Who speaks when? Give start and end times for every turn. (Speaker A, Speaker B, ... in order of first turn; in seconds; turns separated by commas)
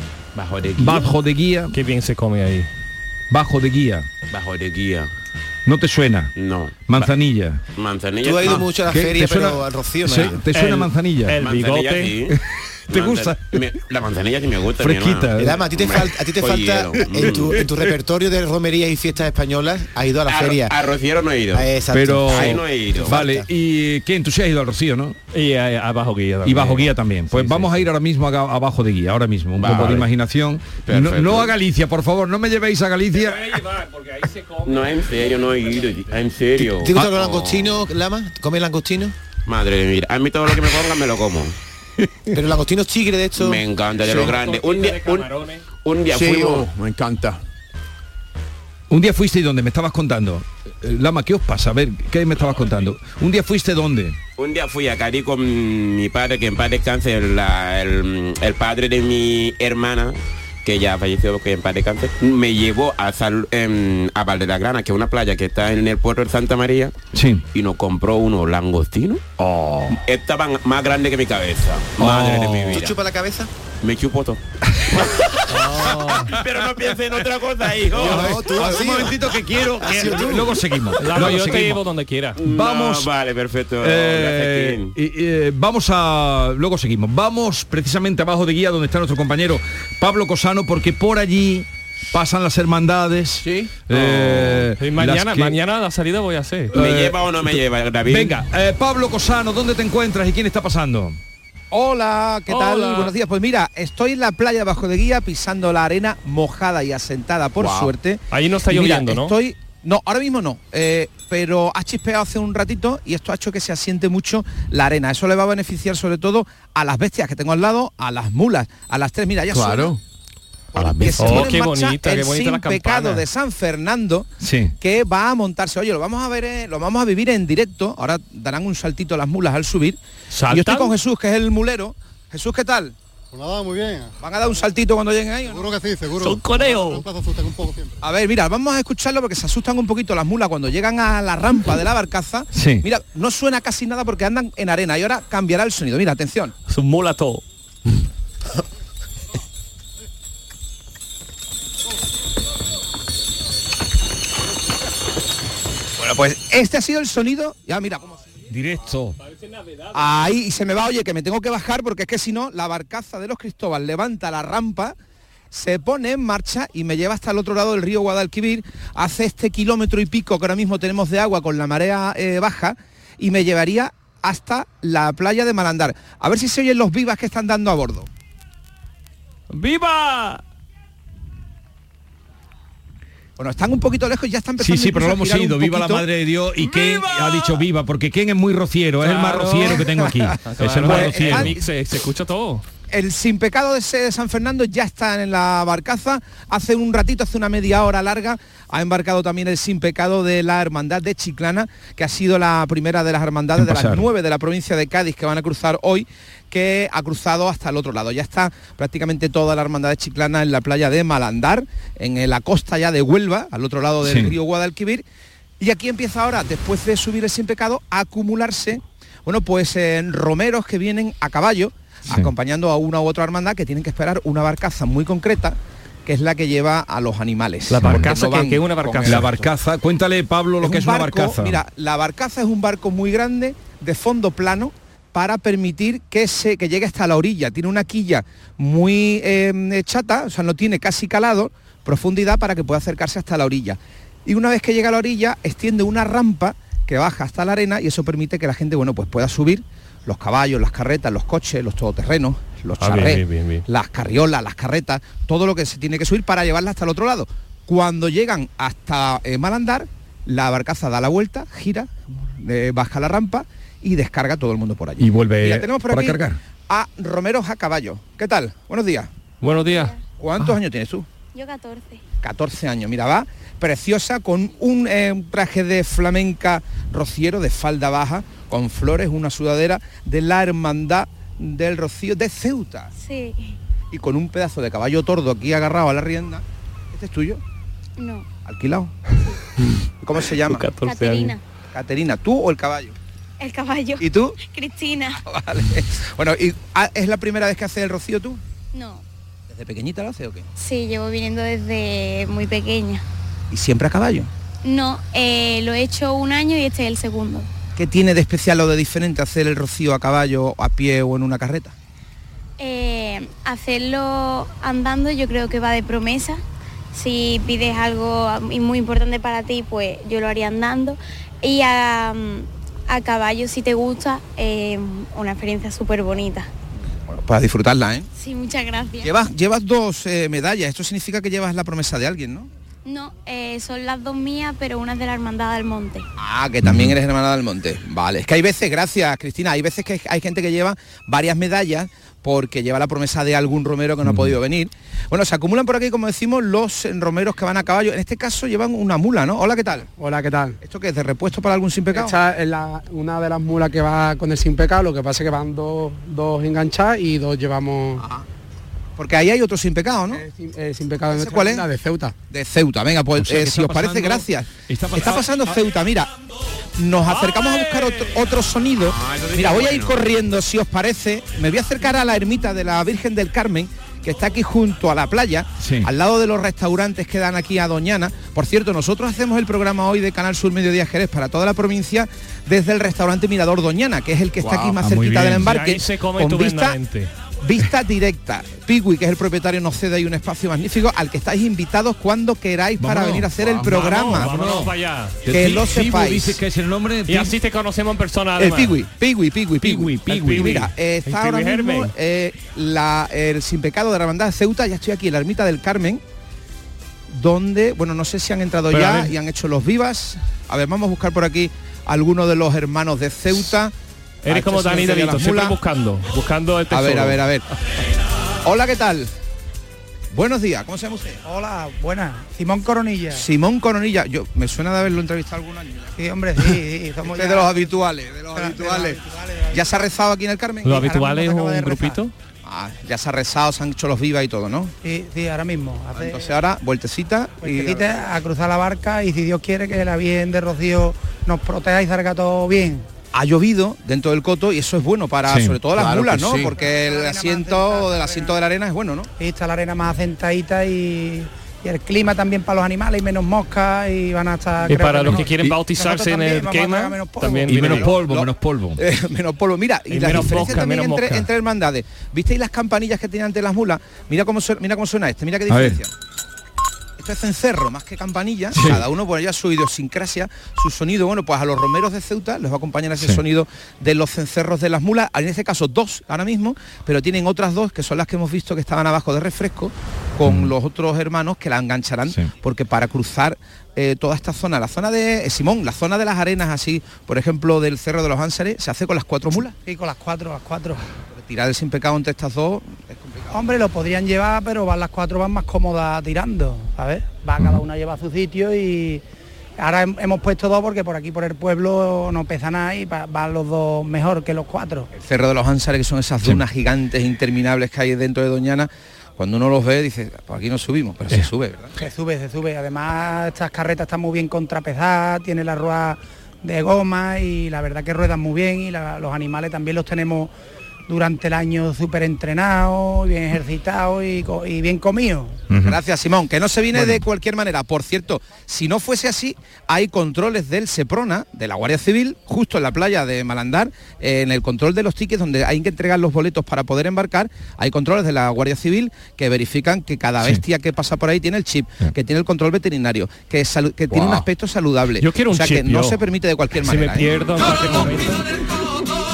Speaker A: 0.3-1.1, Speaker B: 0.8-1.7, Speaker C: 1.7-2.7, Speaker B: 3.3-4.1, Speaker A: 4.3-5.1, Speaker B: 5.7-6.3, Speaker A: 6.3-6.8, Speaker B: 6.8-7.6, Speaker A: 7.7-8.7, Speaker D: 8.2-10.4, Speaker B: 8.5-11.4, Speaker C: 10.5-12.1, Speaker A: 11.4-12.4, Speaker B: 12.9-13.6, Speaker A: 12.9-17.6, Speaker B: 14.8-15.6, Speaker D: 15.4-20.8, Speaker A: 20.3-21.7, Speaker D: 21.5-23.5, Speaker B: 21.9-25.1, Speaker A: 22.3-23.2, Speaker C: 25.3-27.9, Speaker B: 26.4-33.5, Speaker A: 29.6-30.1, Speaker A: 30.8-31.5, Speaker C: 33.1-36.1, Speaker A: 34.6-37.8, Speaker D: 36.6-39.1, Speaker A: 39.5-41.5, Speaker D: 42.3-43.6, Speaker A: 43.4-45.3, Speaker E: 44.0-44.3, Speaker C: 44.1-45.6, Speaker A: 45.8-46.7, Speaker E: 46.1-47.4, Speaker B: 48.9-54.2, Speaker A: 54.4-67.0, Speaker B: 67.1-67.4, Speaker A: 67.5-69.2, Speaker B: 69.4-70.0, Speaker A: 69.9-72.9, Speaker B: 72.0-72.8, Speaker D: 72.2-73.5, Speaker A: 73.8-78.8, Speaker C: 75.5-76.3, Speaker D: 77.9-80.7, Speaker B: 78.0-81.8, Speaker C: 81.0-82.4, Speaker A: 82.4-84.9, Speaker B: 82.4-83.1, Speaker B: 83.8-95.5, Speaker E: 93.4-93.7, Speaker C: 93.9-96.8, Speaker B: 96.7-101.2, Speaker A: 96.7-98.3, Speaker F: 101.7-119.9, Speaker C: 102.5-103.1, Speaker E: 107.6-107.9, Speaker C: 108.3-109.3, Speaker E: 119.5-120.0, Speaker F: 120.7-130.0, Speaker A: 120.8-121.5, Speaker C: 121.2-123.2, Speaker B: 124.4-124.8, Speaker C: 130.3-130.9, Speaker F: 130.5-132.9, Speaker G: 133.3-134.6, Speaker F: 134.2-135.7, Speaker G: 135.4-138.0, Speaker C: 136.2-137.0, Speaker F: 138.0-146.5, Speaker B: 142.5-142.8, Speaker C: 146.7-147.4, Speaker F: 156.0-158.2, Speaker B: 158.5-159.2, Speaker C: 159.2-160.0, Speaker F: 159.9-164.9, Speaker F: 165.5-178.1, Speaker C: 179.5-180.4, Speaker F: 183.4-186.0, Speaker B: 184.6-191.6, Speaker C: 189.0-192.6, Speaker F: 190.8-191.6, Speaker F: 192.9-215.0, Speaker B: 203.6-204.1, Speaker B: 214.0-214.4, Speaker F: 215.6-229.4, Speaker C: 227.7-229.3, Speaker B: 227.8-228.1, Speaker B: 229.0-231.6, Speaker F: 230.6-269.1, Speaker C: 252.8-253.7, Speaker B: 265.0-266.4, Speaker C: 269.4-269.9, Speaker H: 269.6-270.0, Speaker F: 270.2-271.1, Speaker H: 271.3-272.0, Speaker F: 272.2-282.9, Speaker H: 283.0-283.6, Speaker F: 283.9-287.4, Speaker H: 288.0-288.3, Speaker F: 288.4-288.9, Speaker F: 290.0-290.7, Speaker C: 290.4-291.3, Speaker H: 290.8-291.4, Speaker F: 291.7-292.9, Speaker H: 293.4-295.2, Speaker F: 294.0-294.4, Speaker F: 295.2-298.4, Speaker H: 298.7-299.0, Speaker F: 299.5-300.5, Speaker H: 300.6-303.0, Speaker F: 303.5-304.3, Speaker H: 304.6-307.5, Speaker F: 307.8-311.7, Speaker H: 312.6-316.4, Speaker H: 316.9-326.5, Speaker F: 327.1-328.1, Speaker H: 328.1-329.1, Speaker F: 329.0-332.5, Speaker H: 332.9-336.1, Speaker F: 336.2-349.9, Speaker B: 336.6-336.9, Speaker B: 344.0-344.3, Speaker I: 349.9-350.6, Speaker F: 350.6-352.2, Speaker I: 351.9-358.1, Speaker F: 359.0-360.2, Speaker I: 360.1-362.1, Speaker F: 361.1-361.7, Speaker F: 362.3-366.1, Speaker B: 363.2-365.6, Speaker F: 366.8-386.8, Speaker A: 368.8-370.1, Speaker B: 375.6-375.9, Speaker E: 384.4-384.9, Speaker B: 384.9-385.5, Speaker C: 385.0-387.1, Speaker F: 387.4-394.3, Speaker B: 392.8-394.7, Speaker E: 393.4-393.6, Speaker C: 393.6-395.2, Speaker B: 395.2-397.3, Speaker F: 395.3-396.4, Speaker C: 397.1-398.8, Speaker F: 398.4-406.0, Speaker B: 399.6-400.7, Speaker C: 400.0-401.9, Speaker F: 407.1-413.7, Speaker C: 408.7-409.1, Speaker C: 414.2-417.2, Speaker F: 414.3-415.6, Speaker F: 416.7-417.4, Speaker F: 418.4-419.1, Speaker F: 420.1-421.2, Speaker J: 421.2-423.2, Speaker F: 423.1-425.9, Speaker J: 425.9-427.5, Speaker F: 427.1-430.9, Speaker J: 428.3-429.8, Speaker C: 430.6-432.1, Speaker J: 430.7-432.0, Speaker F: 432.4-434.7, Speaker J: 434.8-436.4, Speaker F: 435.9-437.9, Speaker J: 437.4-442.9, Speaker F: 443.1-449.1, Speaker B: 445.3-445.6, Speaker E: 445.7-446.5, Speaker J: 446.4-448.4, Speaker J: 449.2-457.9, Speaker C: 454.7-457.9, Speaker B: 455.1-455.6, Speaker B: 457.4-458.8, Speaker F: 458.0-465.9, Speaker C: 459.9-461.3, Speaker B: 465.5-465.8, Speaker F: 467.0-489.6, Speaker B: 468.5-468.9, Speaker B: 480.2-480.5, Speaker J: 489.6-490.9, Speaker F: 491.1-493.6, Speaker J: 493.3-499.0, Speaker B: 497.4-497.6, Speaker J: 499.6-504.9, Speaker F: 505.0-511.7, Speaker J: 511.8-520.3, Speaker J: 520.9-525.4, Speaker B: 525.5-525.8, Speaker F: 525.6-547.2, Speaker B: 526.7-527.0, Speaker B: 543.9-544.2, Speaker C: 545.0-546.0, Speaker C: 546.6-548.2